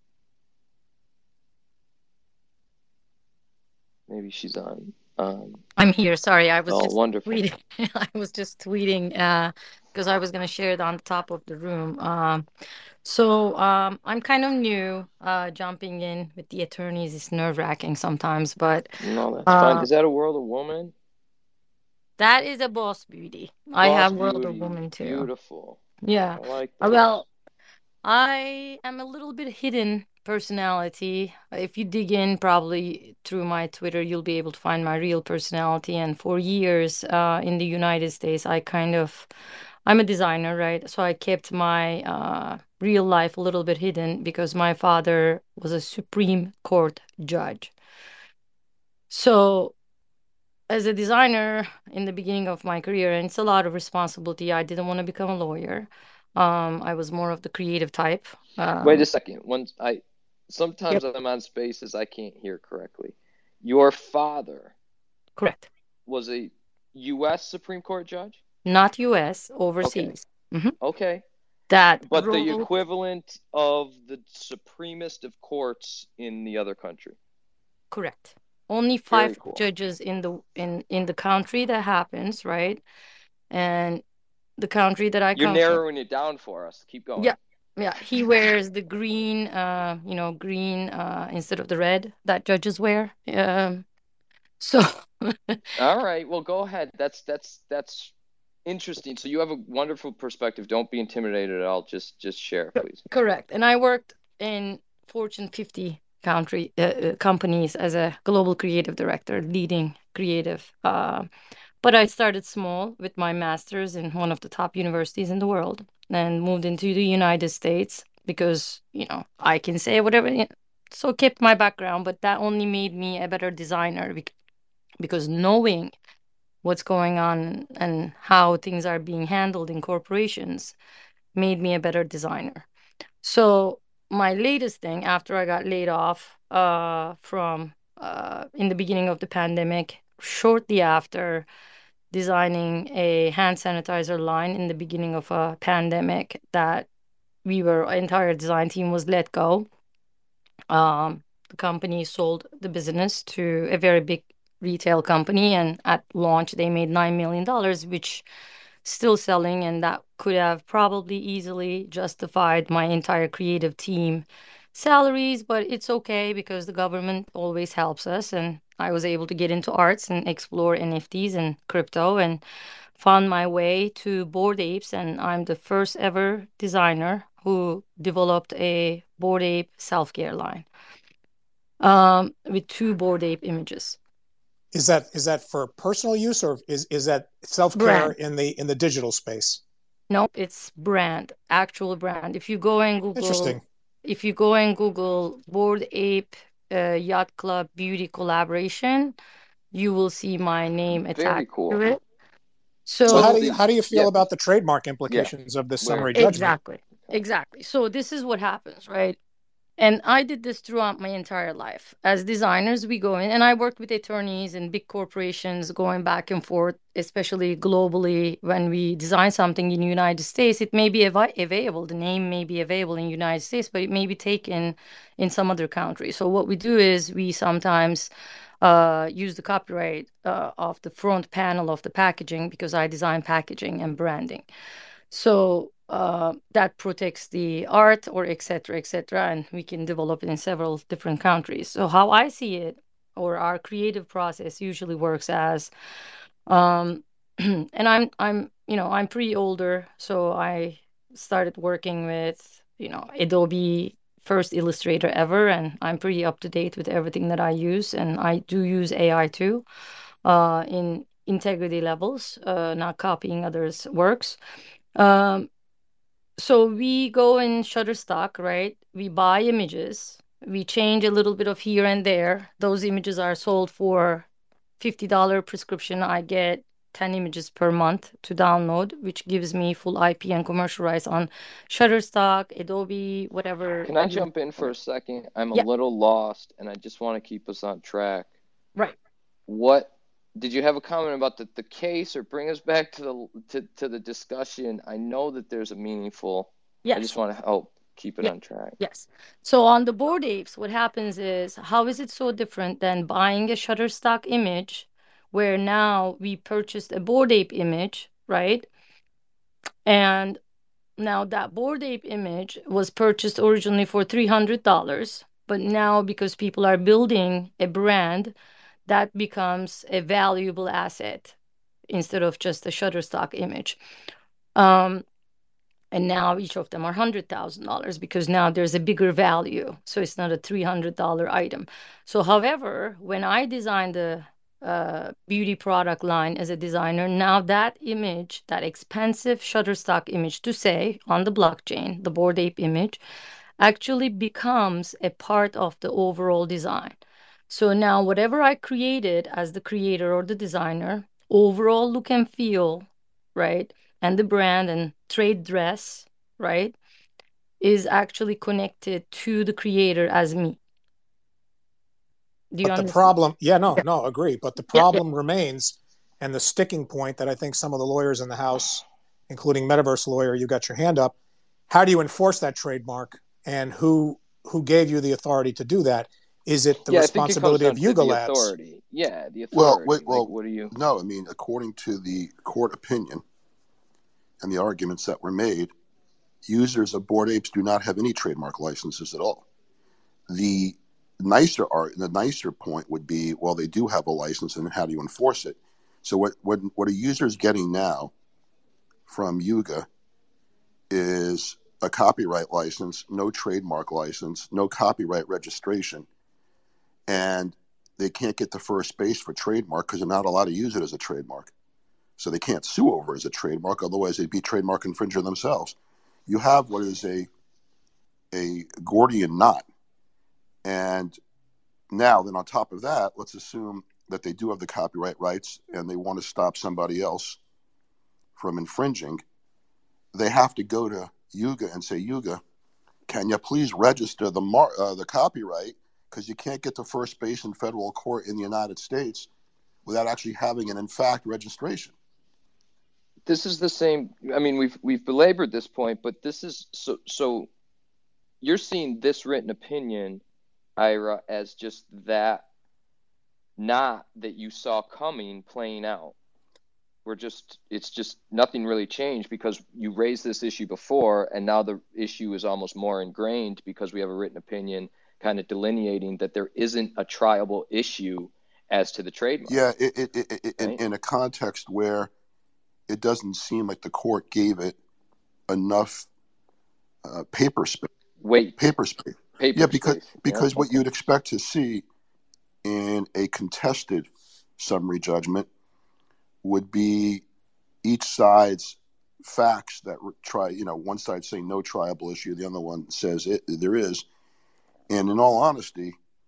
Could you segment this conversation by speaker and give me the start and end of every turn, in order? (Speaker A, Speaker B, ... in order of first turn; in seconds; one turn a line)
Speaker A: 4.1-5.6
Speaker B: 5.8-12.5
Speaker A: 6.7-7.4
Speaker B: 13.0-19.9
Speaker A: 19.0-20.9
Speaker B: 22.2-25.3
Speaker A: 23.8-25.8
Speaker B: 26.0-27.2
Speaker A: 26.4-27.0
Speaker B: 28.0-39.3
Speaker B: 39.9-47.7
Speaker B: 49.1-49.7
Speaker B: 50.7-59.1
Speaker A: 58.8-64.7
Speaker B: 65.4-65.7
Speaker A: 66.1-68.4
Speaker B: 68.6-70.7
Speaker A: 69.8-70.1
Speaker A: 70.8-71.2
Speaker B: 71.7-72.7
Speaker A: 72.1-77.2
Speaker B: 77.9-82.8
Speaker A: 79.1-79.7
Speaker B: 83.5-84.0
Speaker B: 84.6-85.8
Speaker A: 85.3-87.3
Speaker B: 87.2-93.8
Speaker B: 94.6-95.6
Speaker A: 95.8-98.1
Speaker A: 98.7-103.0
Speaker B: 103.0-111.3
Speaker B: 111.8-124.3
Speaker B: 125.0-126.0
Speaker B: 126.6-130.8
Speaker B: 131.3-132.7
Speaker B: 133.2-141.5
Speaker B: 142.1-146.9
Speaker B: 147.4-149.7
Speaker B: 150.7-158.2
Speaker B: 158.8-172.4
Speaker B: 173.0-180.7
Speaker B: 181.8-184.0
Speaker C: 184.7-189.6
Speaker B: 187.7-188.1
Speaker B: 190.1-199.2
Speaker C: 193.2-193.6
Speaker B: 199.7-202.0
Speaker A: 201.1-201.8
Speaker B: 202.8-203.5
Speaker A: 203.1-204.2
Speaker C: 203.1-206.5
Speaker A: 205.1-206.4
Speaker B: 206.1-209.2
Speaker B: 209.8-228.1
Speaker B: 228.6-234.4
Speaker B: 235.1-245.7
Speaker B: 246.5-259.6
Speaker B: 260.2-264.4
Speaker B: 264.9-265.5
Speaker B: 266.4-274.3
Speaker B: 274.8-284.7
Speaker A: 283.8-288.3
Speaker A: 289.5-298.8
Speaker B: 296.8-297.2
Speaker B: 298.2-308.7
Speaker B: 309.9-310.4
Speaker B: 311.0-321.3
Speaker B: 321.9-323.8
Speaker B: 324.6-325.0
Speaker B: 325.9-343.0
Speaker B: 343.6-347.0
Speaker B: 347.5-356.8
Speaker B: 357.6-360.6
Speaker B: 362.5-363.1
Speaker C: 362.6-371.1
Speaker B: 364.7-365.0
Speaker C: 371.7-378.5
Speaker A: 376.9-380.7
Speaker D: 379.5-383.2
Speaker D: 384.4-385.7
Speaker D: 386.4-389.4
Speaker D: 390.3-398.1
Speaker D: 399.1-399.9
Speaker D: 400.9-406.1
Speaker D: 407.1-411.5
Speaker D: 412.2-415.7
Speaker D: 416.3-417.3
Speaker D: 418.3-419.6
Speaker D: 420.6-421.2
Speaker D: 421.9-427.4
Speaker D: 428.4-429.2
Speaker D: 430.1-432.4
Speaker D: 433.1-439.3
Speaker D: 439.9-441.9
Speaker A: 443.3-447.5
Speaker A: 448.4-450.2
Speaker A: 450.8-452.4
Speaker A: 453.6-456.1
Speaker A: 457.1-469.6
Speaker D: 469.5-472.1
Speaker D: 472.9-474.8
Speaker D: 475.5-476.1
Speaker D: 477.0-477.9
Speaker A: 478.2-478.6
Speaker D: 478.6-481.8
Speaker A: 479.3-480.8
Speaker D: 482.6-485.5
Speaker D: 486.4-487.2
Speaker D: 487.8-494.0
Speaker D: 494.9-495.9